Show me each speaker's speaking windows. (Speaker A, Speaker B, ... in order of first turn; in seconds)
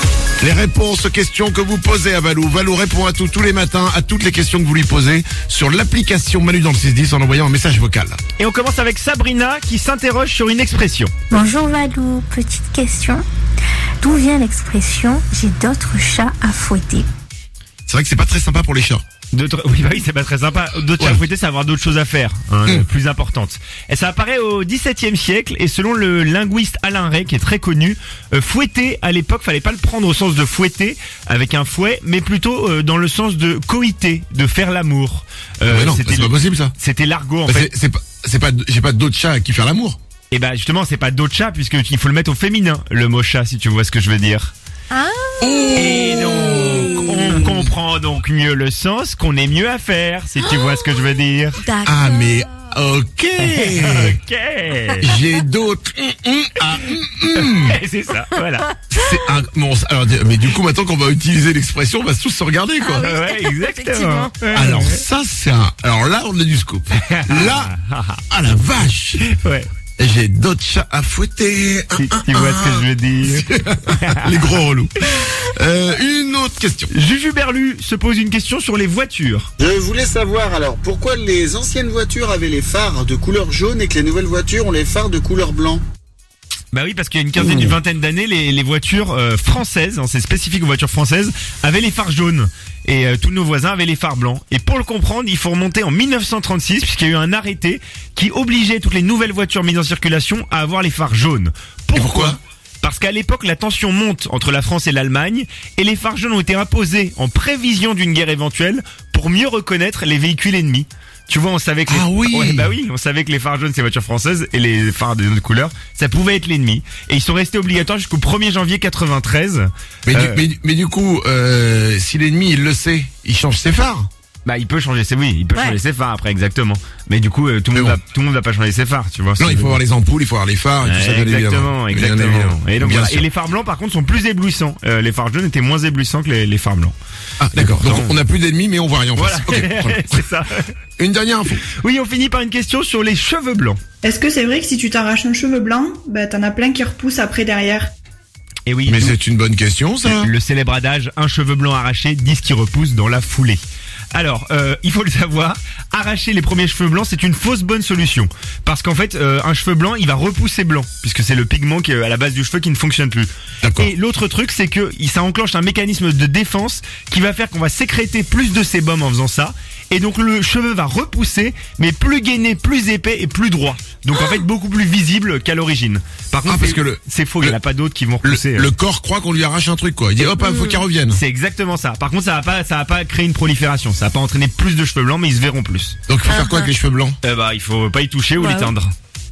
Speaker A: 0.4-8.2, 17.9-19.0, 35.7-36.7, 37.5-40.0, 45.4-47.4, 51.8-54.2, 55.0-57.8, 58.9-63.1, 64.5-67.7, 68.3-69.2, 70.0-76.9, 101.9-102.4, 111.9-112.7, 120.1-124.1, 127.7-128.0, 129.4-133.3, 137.4-140.2, 141.0-141.6, 148.9-150.3, 163.6-163.9, 176.5-177.6, 178.2-181.2, 186.1-187.2
Speaker B: 8.4-11.1, 19.3-37.7, 40.3-44.5, 45.7-51.6, 53.4-55.1, 57.4-58.7, 62.9-65.0, 67.0-68.2, 69.2-69.7, 72.0-74.5, 76.9-79.5, 86.7-120.4, 124.5-129.8, 130.8-137.0, 137.5-138.2, 139.2-140.7, 141.6-143.8, 148.7-149.2, 150.1-153.6, 154.1-178.7, 181.1-186.0, 187.2-188.9
Speaker C: 11.3-13.2, 14.0-17.1, 44.9-45.7, 51.7-52.0, 63.4-64.3, 186.4-186.6
Speaker D: 79.6-85.8
Speaker E: 144.0-147.9